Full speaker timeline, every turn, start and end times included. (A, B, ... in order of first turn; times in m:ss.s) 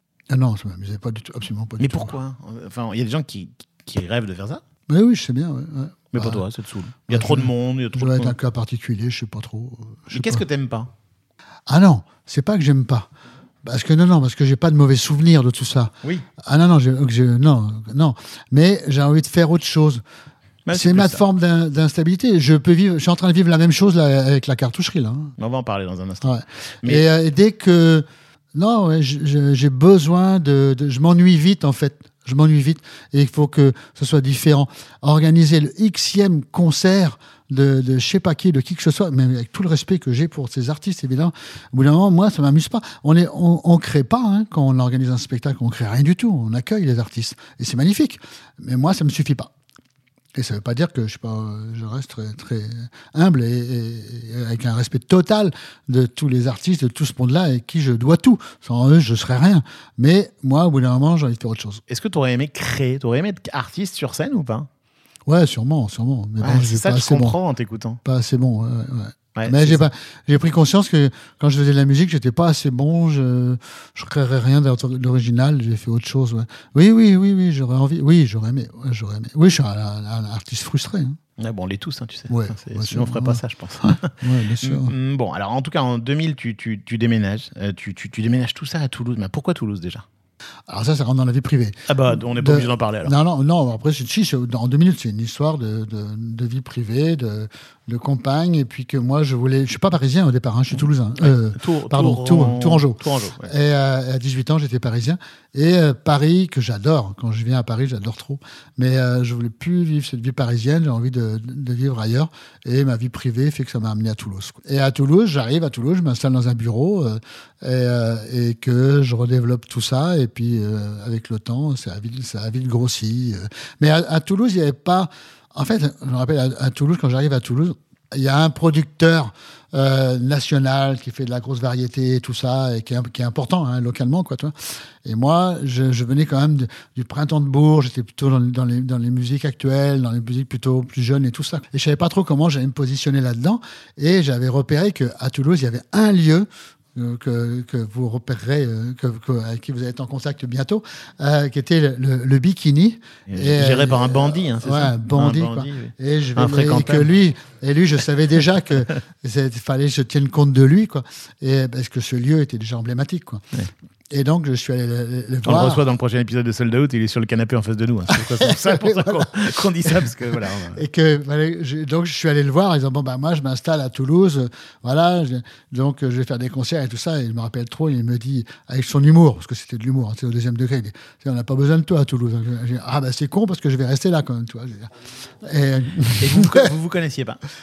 0:00.3-0:02.2 A
0:01.8-0:04.6 B
0:04.9-0:06.4 A
0:06.1-0:08.3 B
0:07.1-0:10.4 A
0:10.1-0:10.9 B
0:11.7-0:13.1 A
0:13.6-0:20.0 A
0:20.6-0:21.2 B
0:20.7-0:25.3 A
0:25.4-0:26.3 B
0:26.2-0:49.5 A
0:50.3-1:01.8 A
1:01.9-1:04.7 B
1:05.2-1:07.4 A
1:06.4-1:08.0 B
1:08.0-1:21.2 A
1:09.4-1:09.8 B
1:21.4-1:30.0 B
1:22.3-1:24.9 A
1:30.7-2:43.4 A
1:31.9-1:33.1 B
1:40.7-1:43.5 B
2:33.3-2:37.1 B
2:44.1-2:45.8 A
2:45.4-2:50.8 B
2:48.1-2:50.1 A
2:50.7-3:06.7 A
3:06.2-3:07.4 B